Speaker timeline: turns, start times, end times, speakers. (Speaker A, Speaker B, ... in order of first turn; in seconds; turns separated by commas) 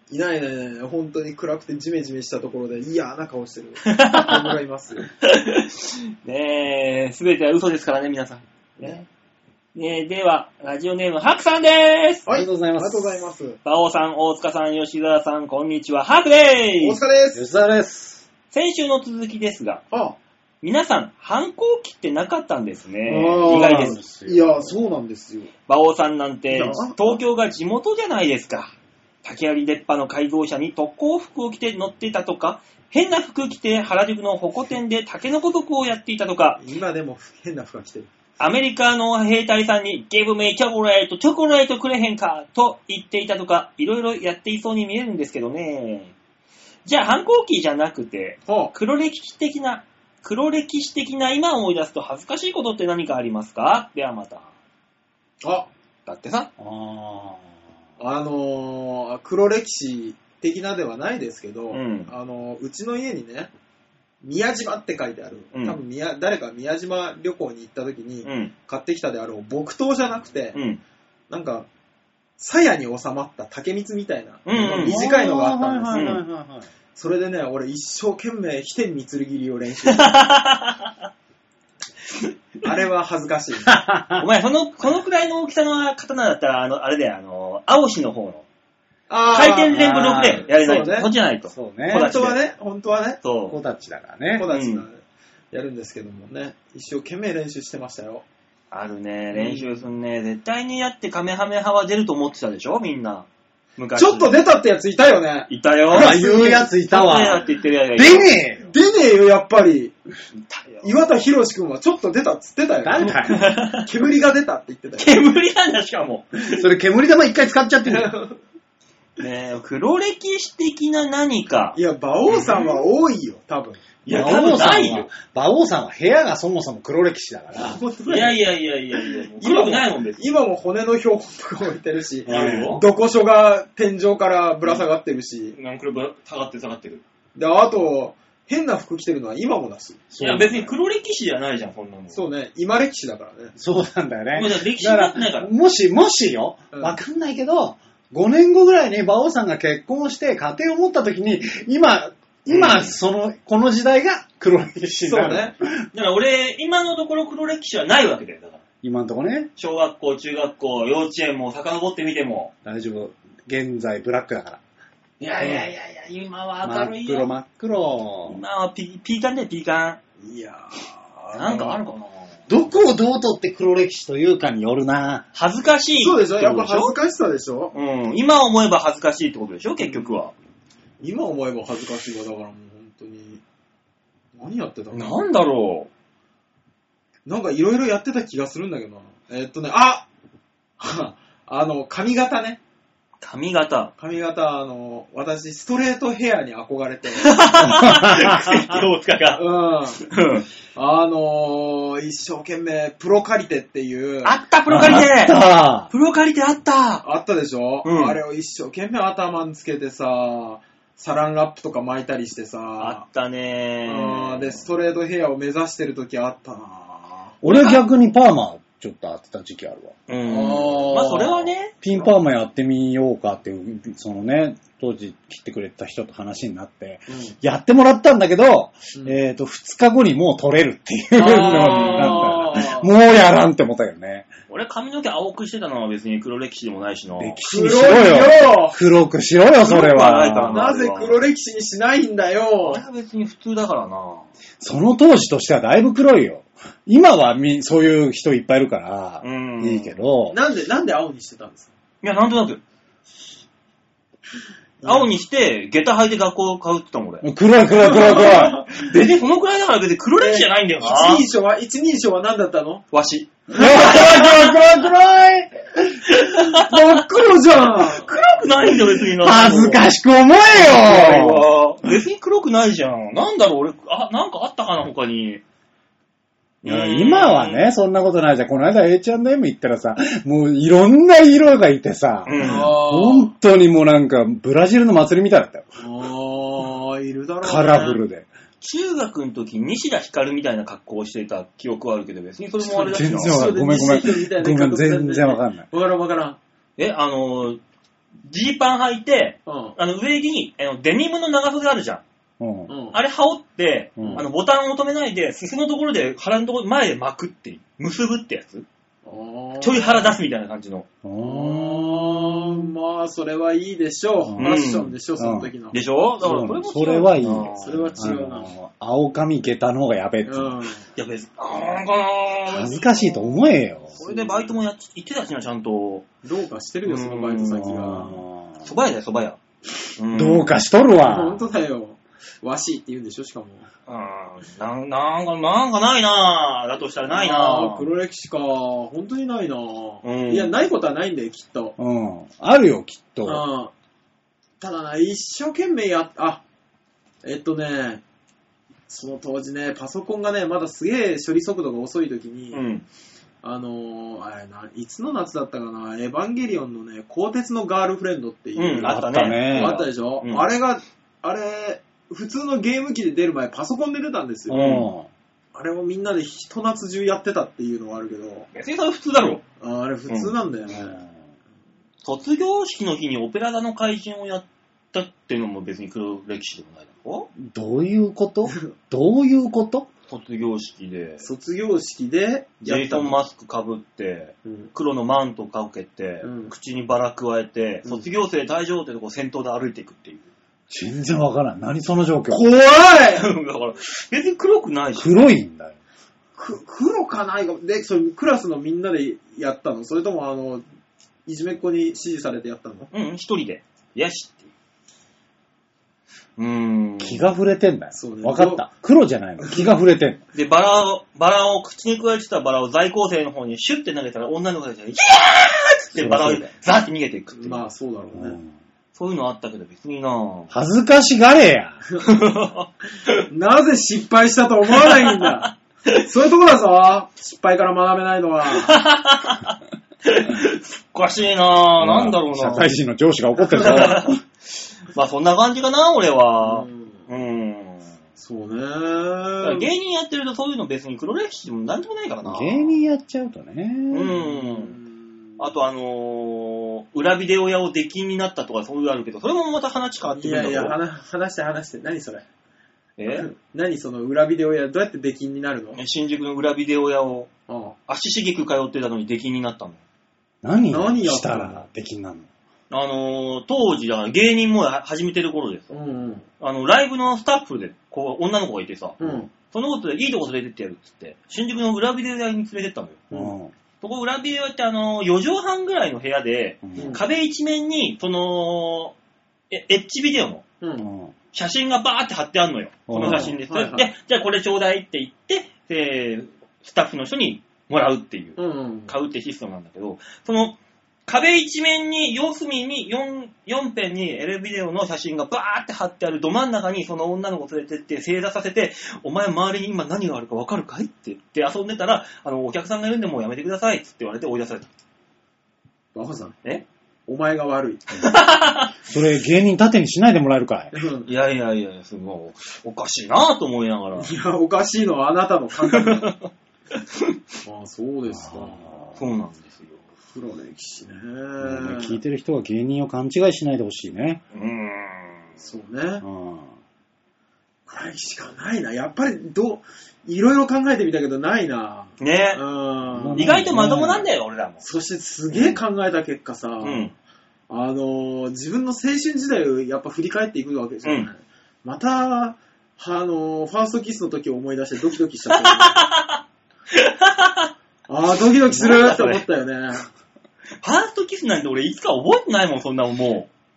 Speaker A: 0.1-5.1, Speaker B: 3.9-4.6, Speaker B: 5.2-9.1, Speaker B: 9.8-12.2, Speaker A: 12.3-13.6, Speaker C: 12.3-13.3, Speaker B: 13.7-17.0, Speaker A: 16.8-17.4, Speaker C: 17.3-18.2, Speaker B: 18.5-19.8, Speaker A: 19.9-20.2, Speaker B: 20.6-24.0, Speaker A: 23.1-25.5, Speaker C: 23.4-24.8, Speaker B: 25.7-28.7, Speaker A: 26.5-27.2, Speaker B: 29.2-36.6, Speaker A: 36.6-38.1, Speaker B: 38.4-46.1, Speaker B: 46.9-54.5, Speaker A: 48.5-48.7, Speaker A: 55.4-55.7, Speaker B: 56.1-56.5, Speaker C: 56.6-57.5, Speaker A: 58.0-63.5, Speaker B: 61.7-62.1, Speaker A: 64.2-70.6, Speaker B: 68.2-68.5, Speaker B: 70.5-70.8, Speaker A: 71.3-71.7, Speaker A: 72.4-76.1, Speaker B: 74.5-75.0, Speaker C: 74.5-76.7, Speaker B: 75.9-76.2, Speaker A: 77.0-80.2, Speaker B: 79.9-80.9, Speaker A: 82.6-83.8, Speaker C: 83.7-84.2, Speaker B: 84.2-88.5, Speaker A: 89.1-91.1, Speaker B: 89.3-92.4, Speaker C: 89.7-90.4, Speaker C: 91.5-92.1, Speaker A: 91.9-93.2, Speaker B: 93.2-93.6, Speaker C: 93.5-94.5, Speaker A: 94.4-98.2, Speaker B: 94.5-94.8, Speaker B: 98.7-104.3, Speaker A: 99.3-99.7, Speaker A: 104.0-106.7, Speaker B: 105.5-106.2, Speaker C: 105.9-107.4, Speaker B: 106.9-108.4, Speaker C: 108.0-108.7, Speaker A: 108.6-110.0, Speaker B: 110.5-110.9, Speaker A: 110.8-115.2, Speaker C: 112.8-113.4, Speaker B: 113.0-113.9, Speaker B: 115.0-116.7, Speaker C: 116.5-118.1, Speaker A: 117.9-118.4, Speaker B: 119.2-121.8, Speaker A: 121.7-123.8, Speaker B: 122.3-122.7, Speaker B: 124.1-125.1, Speaker C: 124.1-127.8, Speaker A: 127.6-128.4, Speaker B: 128.1-130.3, Speaker A: 129.4-135.6, Speaker B: 132.3-132.8, Speaker C: 132.3-132.8, Speaker B: 135.5-137.0, Speaker A: 137.3-140.0, Speaker C: 140.1-140.7, Speaker B: 140.2-142.2, Speaker A: 142.1-143.5, Speaker C: 143.6-155.9, Speaker B: 144.3-145.5, Speaker B: 152.5-152.9, Speaker A: 155.0-155.5, Speaker B: 155.9-158.6, Speaker C: 158.8-159.5, Speaker B: 159.6-162.5, Speaker C: 162.6-164.6, Speaker B: 165.2-167.3, Speaker C: 165.4-165.7, Speaker C: 166.6-168.4, Speaker B: 168.3-170.0, Speaker A: 170.2-171.8, Speaker B: 171.4-172.3, Speaker C: 172.5-175.3, Speaker B: 175.3-177.0, Speaker A: 176.0-177.8, Speaker B: 177.7-180.3, Speaker A: 179.8-180.1, Speaker A: 181.0-183.4, Speaker A: 184.4-185.2, Speaker B: 184.9-185.9, Speaker A: 187.3-190.1, Speaker A: 190.8-192.6, Speaker B: 193.2-193.9, Speaker A: 194.0-197.4, Speaker B: 197.2-199.4, Speaker C: 197.6-198.6, Speaker A: 199.4-200.0, Speaker B: 200.0-200.5, Speaker A: 200.8-204.4, Speaker B: 204.2-205.4, Speaker C: 204.7-205.9, Speaker B: 205.9-207.0, Speaker A: 207.0-213.0, Speaker B: 207.8-208.2, Speaker B: 212.8-214.6, Speaker A: 213.9-217.3, Speaker B: 217.4-217.8, Speaker C: 217.4-220.0, Speaker B: 220.1-221.8, Speaker A: 220.2-221.5, Speaker C: 221.8-234.3, Speaker A: 227.1-227.3, Speaker A: 228.9-229.2, Speaker A: 231.2-232.9, Speaker B: 231.7-232.2, Speaker B: 234.5-237.4, Speaker C: 237.2-240.6, Speaker A: 237.4-238.8, Speaker B: 239.6-241.2, Speaker A: 240.5-242.8, Speaker B: 242.6-244.3, Speaker C: 244.6-250.4, Speaker B: 249.2-250.0, Speaker A: 250.3-251.7, Speaker B: 252.0-252.6, Speaker A: 254.8-255.1, Speaker B: 254.8-257.2, Speaker C: 257.2-258.6, Speaker A: 257.8-258.7, Speaker B: 258.0-261.2, Speaker A: 260.2-262.9, Speaker B: 262.9-264.6, Speaker C: 263.5-265.6, Speaker B: 266.1-266.8, Speaker A: 266.3-268.1, Speaker B: 267.7-269.8, Speaker C: 269.2-271.5, Speaker B: 270.6-275.4, Speaker B: 276.6-277.7, Speaker C: 276.6-285.7, Speaker B: 282.3-282.7, Speaker A: 282.4-283.3, Speaker A: 285.8-288.0, Speaker C: 287.4-288.3, Speaker B: 288.6-293.7, Speaker C: 292.6-295.7, Speaker A: 293.2-296.4, Speaker B: 296.8-297.6, Speaker B: 298.2-302.0, Speaker A: 299.5-299.8, Speaker C: 302.4-302.7, Speaker A: 302.7-303.0, Speaker B: 302.9-308.6, Speaker C: 304.0-304.3, Speaker A: 304.0-304.3, Speaker A: 309.1-310.2, Speaker B: 309.6-310.9, Speaker C: 311.0-312.6, Speaker A: 311.2-315.8, Speaker C: 314.2-314.6, Speaker B: 314.4-314.9, Speaker C: 315.2-315.5, Speaker B: 315.7-318.0, Speaker C: 316.2-320.6, Speaker A: 317.6-318.5, Speaker A: 320.2-320.8, Speaker B: 321.0-323.4, Speaker C: 322.5-324.0, Speaker B: 324.0-326.1, Speaker A: 324.0-324.4, Speaker A: 326.2-328.1, Speaker B: 326.9-328.1, Speaker C: 327.6-328.7, Speaker B: 328.6-329.4, Speaker B: 330.0-330.5, Speaker C: 330.1-331.4, Speaker A: 331.0-333.7, Speaker B: 333.9-337.9, Speaker A: 337.1-341.8, Speaker B: 340.0-340.5, Speaker C: 341.8-343.4, Speaker A: 343.2-343.7, Speaker A: 344.6-346.4, Speaker A: 347.2-348.0, Speaker A: 348.9-352.6, Speaker B: 352.5-352.9, Speaker A: 353.4-364.6, Speaker B: 358.6-360.5, Speaker C: 358.9-359.8, Speaker C: 364.5-365.1, Speaker B: 364.5-364.9, Speaker A: 365.5-368.5, Speaker B: 368.5-369.4, Speaker A: 369.6-371.0, Speaker B: 370.1-370.3, Speaker C: 370.7-371.1, Speaker B: 372.0-377.3, Speaker C: 377.4-379.9, Speaker B: 380.1-381.2, Speaker A: 381.2-383.2, Speaker B: 382.6-390.3, Speaker A: 386.2-386.5, Speaker C: 390.7-392.4, Speaker A: 392.3-393.3, Speaker B: 393.1-395.2, Speaker C: 395.0-395.8, Speaker A: 396.4-400.6, Speaker A: 401.3-402.9, Speaker B: 402.9-404.5, Speaker B: 406.4-407.3, Speaker C: 407.0-410.2, Speaker A: 407.9-408.7, Speaker B: 410.3-417.6, Speaker C: 416.0-416.5, Speaker A: 417.4-418.4, Speaker C: 418.2-418.5, Speaker B: 418.9-420.5, Speaker C: 420.5-421.8, Speaker B: 422.0-423.2, Speaker A: 423.3-428.8, Speaker B: 424.9-425.4, Speaker B: 428.5-432.7, Speaker C: 431.8-434.2, Speaker B: 433.5-434.2, Speaker B: 434.9-437.8, Speaker A: 436.4-437.0, Speaker A: 438.2-439.7, Speaker B: 439.4-442.8, Speaker C: 442.2-444.2, Speaker B: 443.9-444.8, Speaker A: 444.1-445.2, Speaker B: 445.4-450.8, Speaker A: 450.1-452.2, Speaker B: 453.0-453.3, Speaker A: 453.1-455.8, Speaker B: 455.8-457.3, Speaker A: 457.5-457.8, Speaker B: 457.9-459.8, Speaker C: 460.4-462.3, Speaker A: 460.7-461.6, Speaker B: 462.7-465.7, Speaker A: 465.7-466.2, Speaker B: 466.4-473.1, Speaker A: 469.0-469.3, Speaker C: 473.1-473.5, Speaker B: 473.8-478.9, Speaker C: 476.6-477.0, Speaker A: 476.8-477.0, Speaker B: 479.5-480.5, Speaker A: 480.6-480.9, Speaker C: 480.8-481.1, Speaker B: 481.3-504.7, Speaker C: 482.9-483.3, Speaker A: 483.0-483.9, Speaker A: 488.4-488.9, Speaker A: 505.9-506.4, Speaker A: 507.1-507.8, Speaker B: 508.0-508.7, Speaker C: 508.9-510.7, Speaker A: 510.7-511.1, Speaker B: 511.1-514.1, Speaker A: 514.0-516.1, Speaker B: 515.6-517.1, Speaker A: 517.5-518.7, Speaker C: 518.2-519.0, Speaker B: 519.0-519.8, Speaker A: 520.1-522.0, Speaker C: 521.4-524.2, Speaker B: 524.3-525.2, Speaker A: 525.4-526.0, Speaker C: 526.0-526.5, Speaker A: 527.7-533.4, Speaker B: 532.0-532.4, Speaker C: 533.0-534.1, Speaker B: 533.1-534.6, Speaker A: 534.6-536.9, Speaker B: 535.3-535.6, Speaker B: 536.6-536.9, Speaker A: 537.5-545.8, Speaker B: 545.3-546.2, Speaker B: 546.7-547.5, Speaker A: 547.9-549.9, Speaker B: 548.3-549.2, Speaker B: 550.6-553.3